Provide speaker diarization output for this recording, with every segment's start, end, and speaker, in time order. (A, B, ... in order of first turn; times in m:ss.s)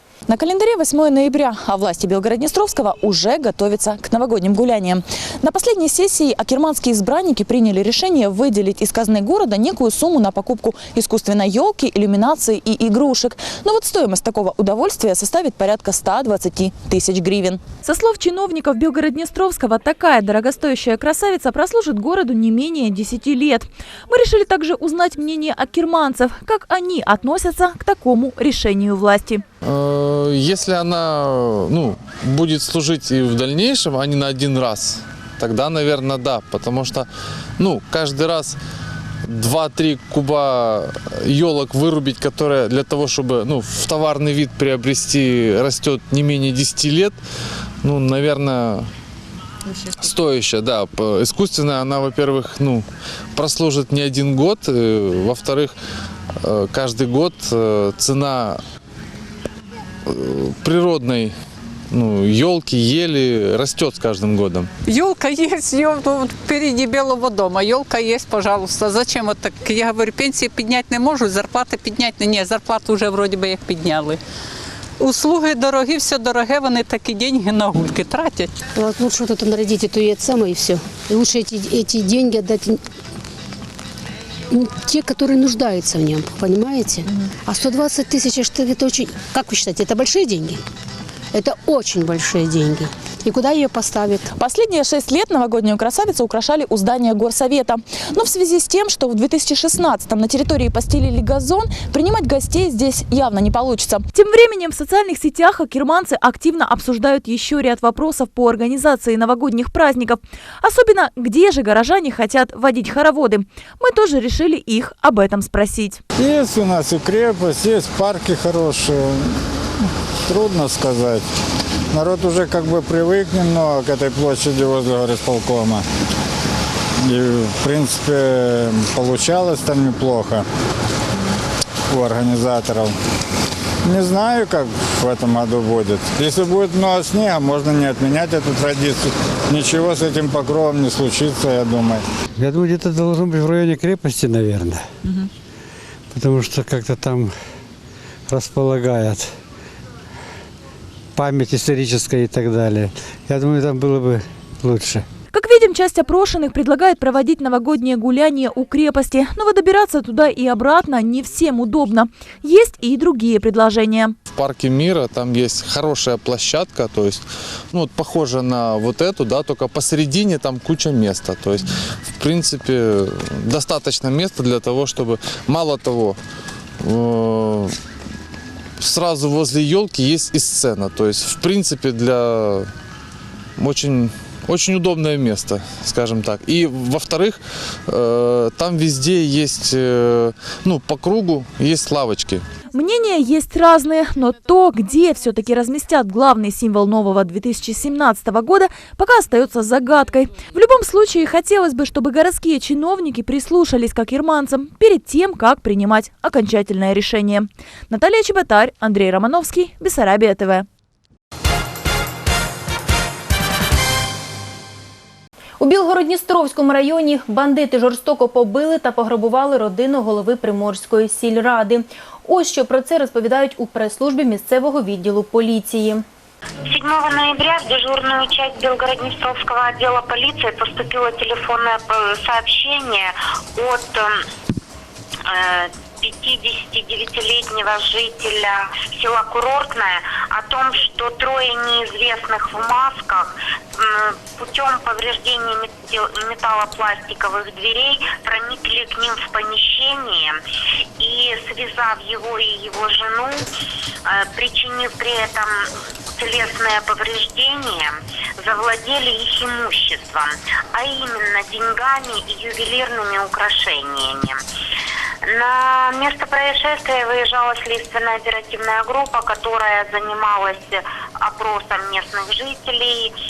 0:00.3-0:29.4 A
0:29.6-0:38.6 B
0:39.2-0:47.2 B
0:47.8-0:48.9 B
0:50.0-0:55.7 B
0:56.4-0:58.6 B
1:00.0-1:01.3 B
1:01.9-1:04.7 B
1:04.9-1:14.2 C
1:15.0-1:18.6 C
1:18.8-1:22.8 D
1:24.5-1:30.6 D
1:31.3-1:34.2 D
1:34.3-1:56.0 A
1:56.2-1:59.6 E
2:00.3-2:01.2 E
2:01.9-2:05.8 E
2:07.0-2:10.4 E
2:11.9-2:12.9 E
2:13.8-2:22.0 E
2:22.4-2:24.8 F
2:26.1-2:27.3 F
2:28.3-2:29.3 F
2:31.1-2:35.0 F
2:35.3-2:44.1 A
2:44.3-2:56.2 B
2:56.8-2:57.8 B
2:58.8-3:02.7 B
3:03.6-3:12.4 B
3:12.7-3:30.6 A
3:35.6-3:46.0 G
3:46.7-3:54.2 H
3:55.3-4:10.4 H
4:11.0-4:13.4 H
4:14.0-4:15.5 H
4:16.2-4:24.4 H
4:25.3-4:33.1 H